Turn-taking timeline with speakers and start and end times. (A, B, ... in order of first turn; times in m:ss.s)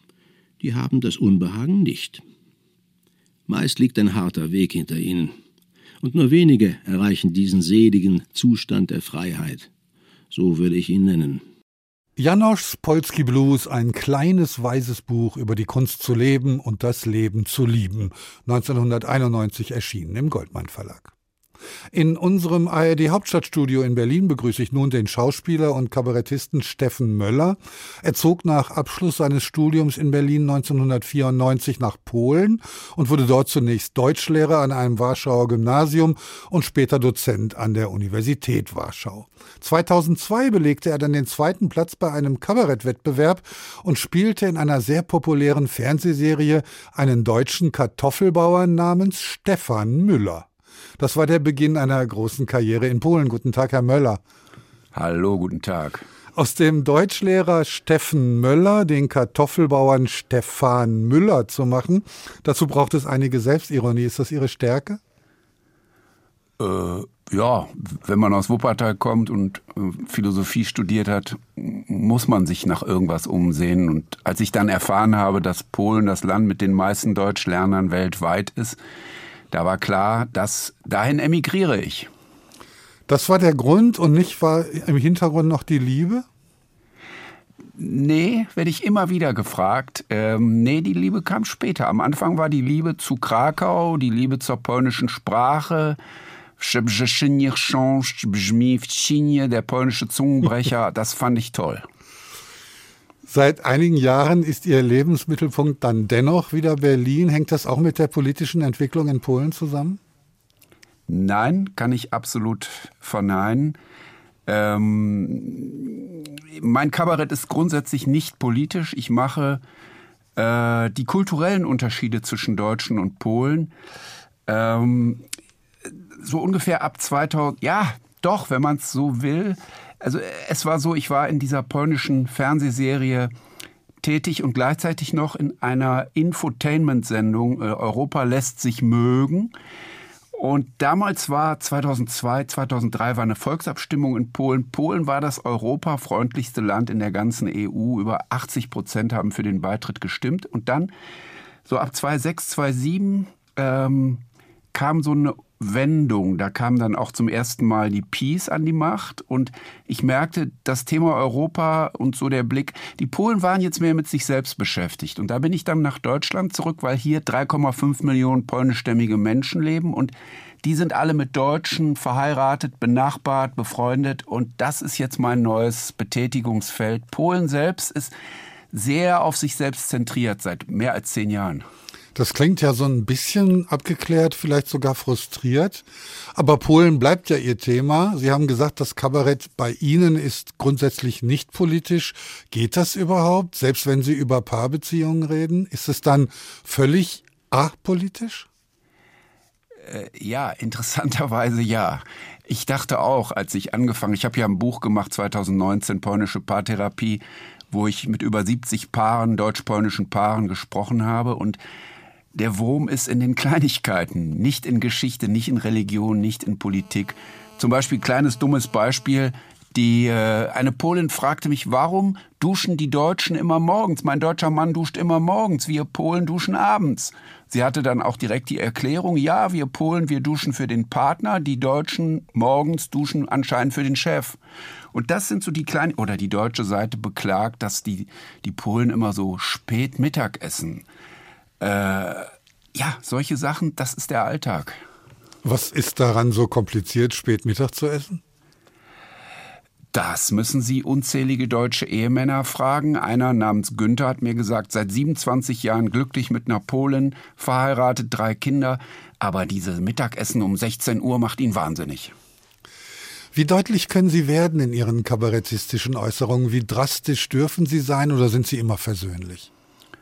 0:00.6-0:02.2 A
0:03.5-0:05.4 A
0:06.0-0:09.7 A
0:10.3-0:11.4 A
0:12.2-0:21.1 B
0:21.9-0:50.5 B
0:51.0-0:54.2 B
0:54.9-0:56.0 C
0:56.4-1:05.0 B
1:06.6-1:18.8 C
1:19.5-1:22.1 C
1:23.1-1:26.2 B
1:27.8-1:36.0 C
1:36.6-1:41.8 C
1:43.3-1:50.0 B
1:51.1-1:53.8 C
1:54.5-1:59.6 C
2:00.4-2:03.7 C
2:04.5-2:05.2 C
2:06.2-2:13.3 C
2:14.0-2:19.5 C
2:20.4-2:30.9 C
2:31.7-2:34.2 C
2:34.7-2:58.1 C
2:58.7-3:01.6 C
3:02.2-3:18.5 B
3:19.8-3:31.6 C
3:32.3-3:54.4 C
3:54.9-4:00.8 C
4:01.6-4:04.8 C
4:05.4-4:08.2 B
4:09.9-4:22.1 C
4:23.3-4:29.5 B